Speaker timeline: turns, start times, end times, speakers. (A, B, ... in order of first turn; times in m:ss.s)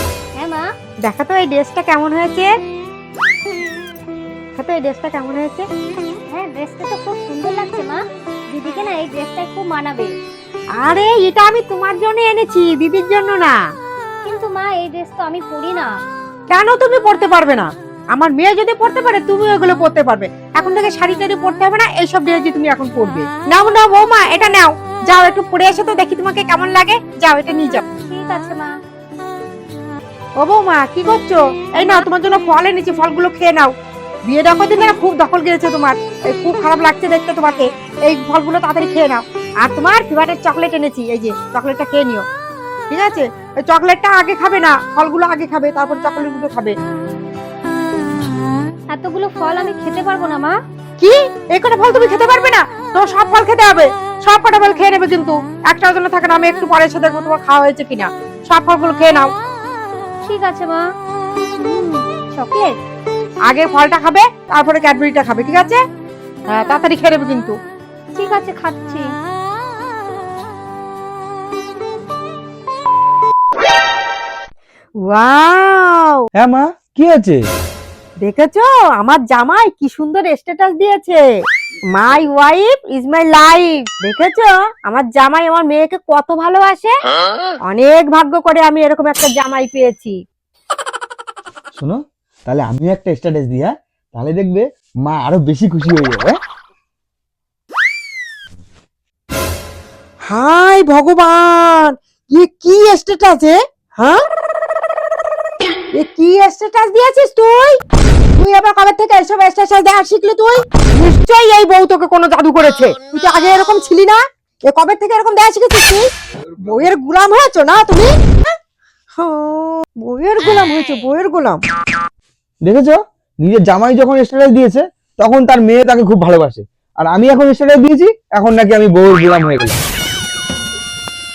0:00.4-0:00.7 A
0:01.0-0:02.5 B
0:04.6-0:05.7 B
0:06.3-0:08.0 A
0:08.5-0:10.1 A
0:10.8-0:13.6 B
0:14.2-0:15.9 A
0:16.5-0:27.8 B
0:28.0-0:28.8 A
0:30.4-0:33.7 B
0:31.8-0:32.1 A
0:34.3-0:42.2 B
0:42.9-0:46.8 B
0:48.9-0:50.6 A
0:51.0-0:59.3 B
1:00.2-1:00.8 A
1:01.6-1:02.8 A
1:03.5-1:05.8 B
1:06.5-1:07.6 B
1:08.1-1:09.1 A
1:15.0-1:16.2 B
1:16.3-1:17.4 C
1:18.2-1:21.2 B
1:22.0-1:26.9 B
1:27.7-1:30.2 B
1:31.8-1:36.4 C
1:40.2-1:44.2 B
1:46.0-1:47.8 B
1:48.3-1:56.0 B
1:56.6-1:58.1 B
1:59.2-2:01.6 B
2:02.6-2:09.8 C